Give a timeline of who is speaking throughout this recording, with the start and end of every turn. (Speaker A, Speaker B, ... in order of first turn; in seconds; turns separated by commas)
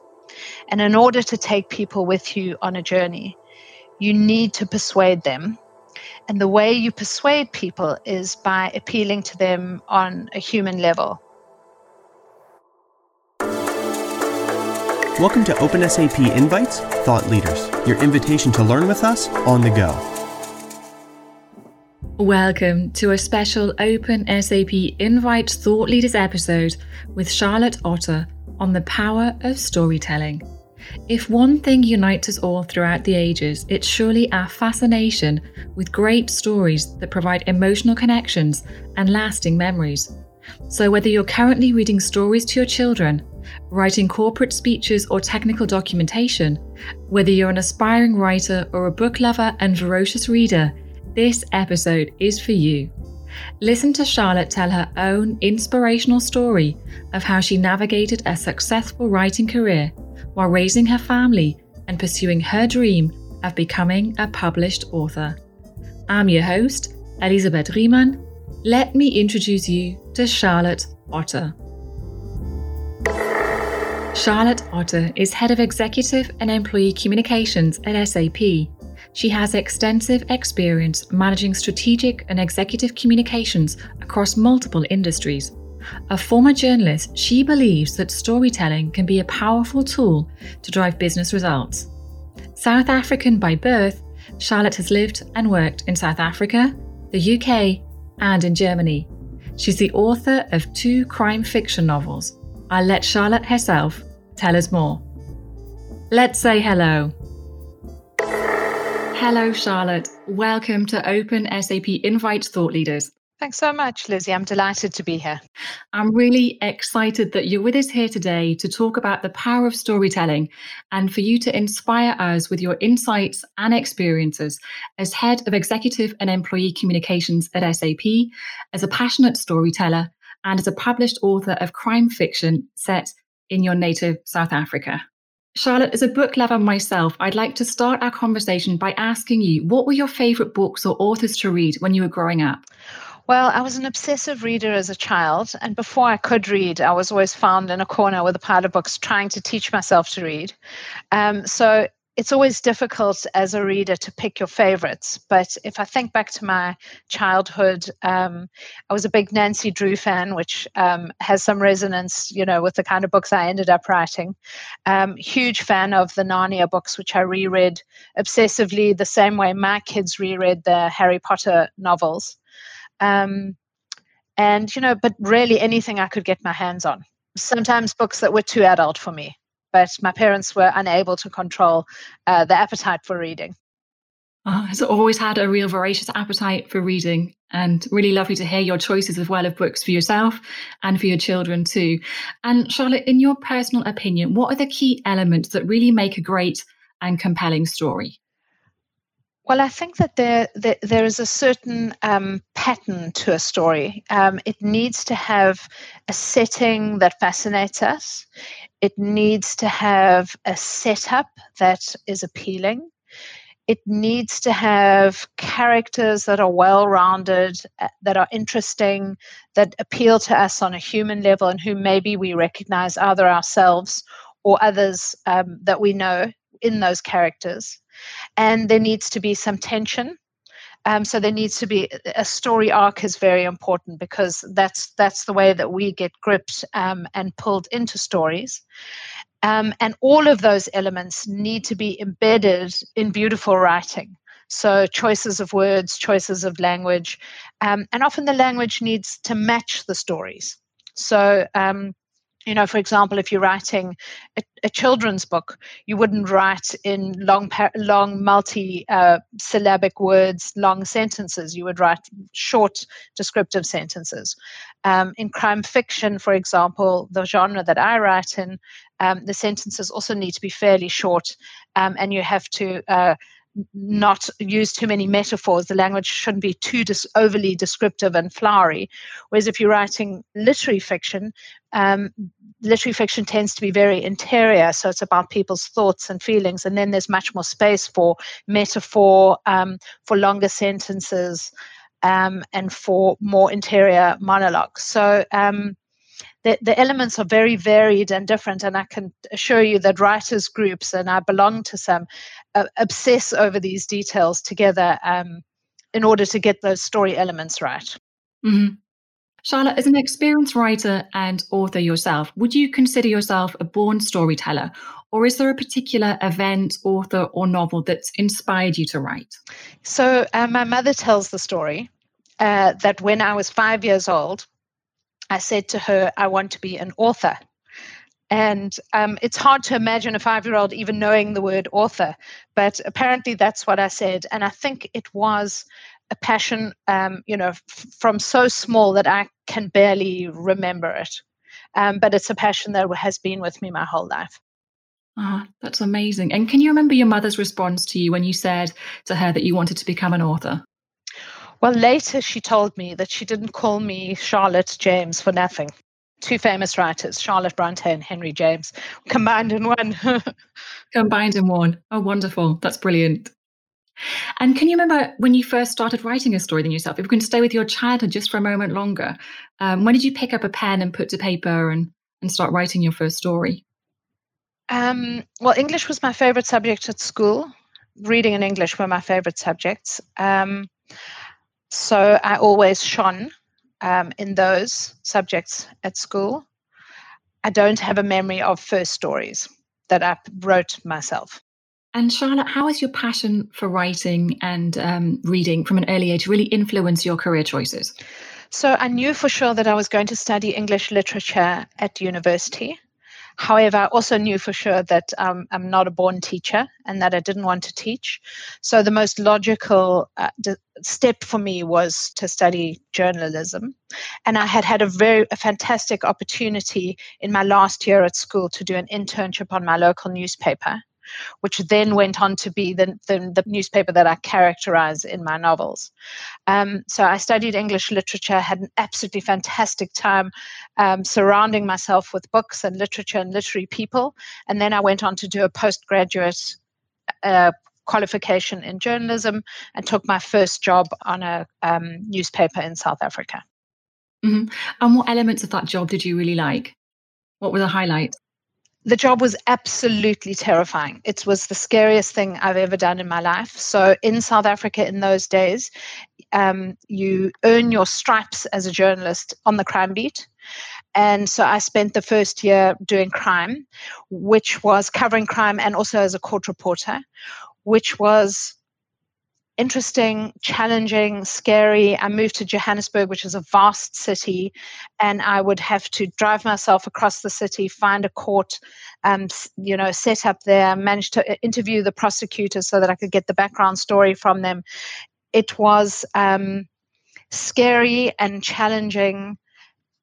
Speaker A: 0.7-3.4, Speaker A: 4.0-5.6, Speaker A: 6.3-11.2, Speaker B: 15.2-20.0, Speaker C: 22.2-30.4, Speaker C: 31.1-40.1, Speaker C: 40.7-52.9, Speaker C: 53.6-65.4, Speaker C: 66.1-71.5, Speaker C: 74.1-85.5, Speaker C: 86.1-91.9, Speaker C: 92.5-105.0, Speaker C: 106.1-107.1, Speaker C: 109.1-113.1, Speaker A: 113.4-115.4, Speaker C: 115.9-135.0, Speaker C: 135.5-142.6, Speaker A: 143.3-150.5, Speaker A: 151.1-172.4, Speaker A: 173.0-173.6, Speaker A: 174.4-183.6, Speaker C: 184.4-198.1, Speaker A: 199.5-208.2, Speaker A: 208.8-212.9, Speaker A: 213.7-227.8, Speaker A: 228.4-230.2, Speaker A: 230.8-238.6, Speaker A: 239.4-251.9, Speaker A: 252.5-291.5, Speaker A: 292.0-295.8, Speaker A: 296.4-305.4, Speaker A: 305.9-308.0, Speaker C: 308.4-308.8, Speaker C: 309.4-319.4, Speaker A: 319.8-321.9, Speaker A: 322.4-324.5, Speaker A: 325.3-327.4, Speaker A: 328.3-341.2, Speaker A: 341.7-344.4, Speaker C: 345.2-350.6, Speaker A: 351.6-360.3, Speaker C: 360.9-363.3, Speaker C: 364.4-373.6, Speaker A: 374.7-380.7, Speaker A: 381.7-386.4, Speaker A: 387.4-391.4, Speaker C: 391.9-397.9, Speaker A: 398.5-402.8, Speaker A: 403.4-413.7, Speaker A: 414.3-420.8, Speaker A: 421.4-425.9, Speaker A: 426.5-436.6, Speaker A: 437.2-443.4, Speaker C: 444.2-446.8, Speaker C: 447.4-448.1, Speaker A: 448.8-455.7, Speaker A: 456.3-460.3, Speaker A: 460.9-467.0, Speaker A: 467.6-468.6, Speaker A: 469.6-484.6, Speaker A: 485.3-486.7, Speaker A: 487.3-489.4